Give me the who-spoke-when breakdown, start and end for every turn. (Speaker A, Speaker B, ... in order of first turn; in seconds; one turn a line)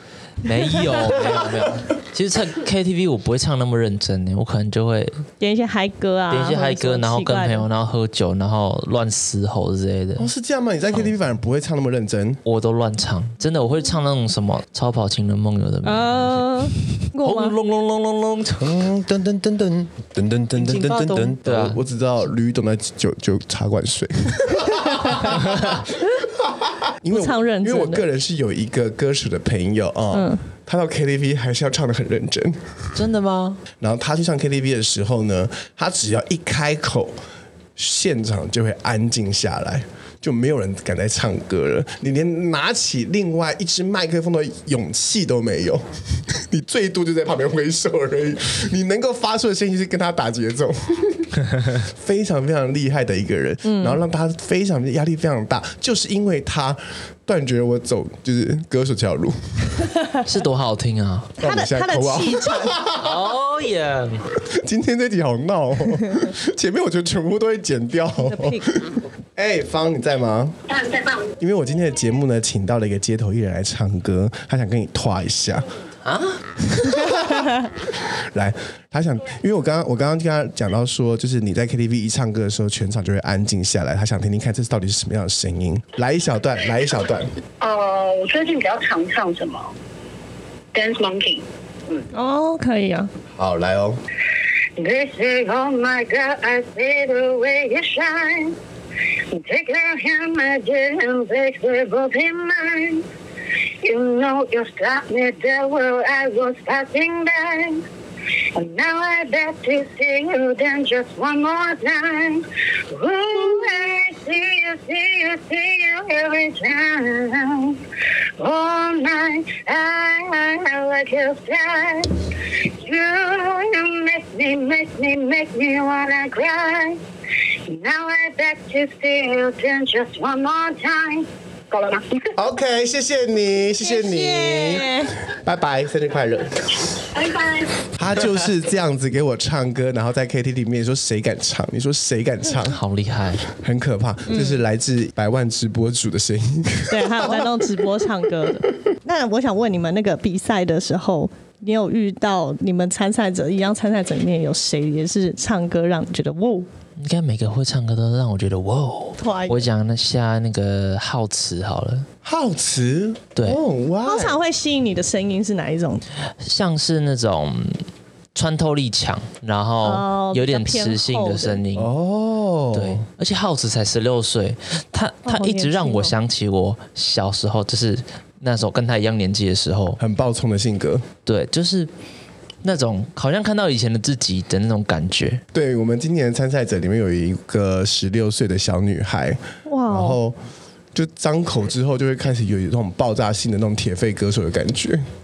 Speaker A: 0.4-5.2
Speaker B: 5.4-7.7
Speaker A: 6.3-10.3
Speaker C: 10.2-12.4
Speaker A: 12.4-18.8
Speaker B: 15.8-17.6
Speaker D: 18.6-21.5
Speaker A: 20.6-21.8
Speaker C: 21.4-32.9
Speaker A: 25.3-25.8
Speaker B: 27.1-28.1
Speaker B: 30.1-30.4
Speaker A: 33.0-33.6
Speaker C: 33.8-37.1
Speaker C: 37.8-59.9
Speaker B: 53.6-54.0
Speaker A: 60.2-61.4
Speaker B: 61.4-62.8
Speaker C: 61.4-63.2
Speaker A: 62.9-64.3
Speaker C: 64.5-70.6
Speaker B: 68.3-68.7
Speaker E: 70.7-71.3
Speaker C: 71.4-75.7
Speaker A: 76.0-76.4
Speaker C: 76.6-87.3
Speaker B: 77.1-77.7
Speaker E: 87.6-89.7
Speaker E: 90.7-92.0
Speaker B: 92.1-93.1
Speaker C: 93.4-94.0
Speaker E: 94.8-98.5
Speaker E: 99.3-103.0
Speaker E: 103.8-107.8
Speaker E: 108.5-117.8
Speaker E: 118.4-127.0
Speaker E: 127.7-132.3
Speaker C: 132.4-136.9
Speaker B: 133.8-135.2
Speaker E: 137.1-137.7
Speaker C: 137.9-142.8
Speaker A: 142.6-143.4
Speaker C: 143.5-147.7
Speaker B: 144.3-144.6
Speaker B: 146.9-156.7
Speaker A: 157.0-162.1
Speaker B: 159.2-159.7
Speaker C: 162.2-164.4
Speaker B: 164.1-166.0
Speaker A: 166.4-171.9
Speaker B: 169.8-171.6
Speaker C: 171.7-173.0
Speaker A: 172.7-180.0
Speaker B: 175.3-176.2
Speaker C: 180.0-181.1
Speaker A: 181.3-181.9
Speaker A: 182.6-185.4
Speaker C: 185.5-190.4
Speaker B: 189.7-190.2
Speaker C: 190.9-195.0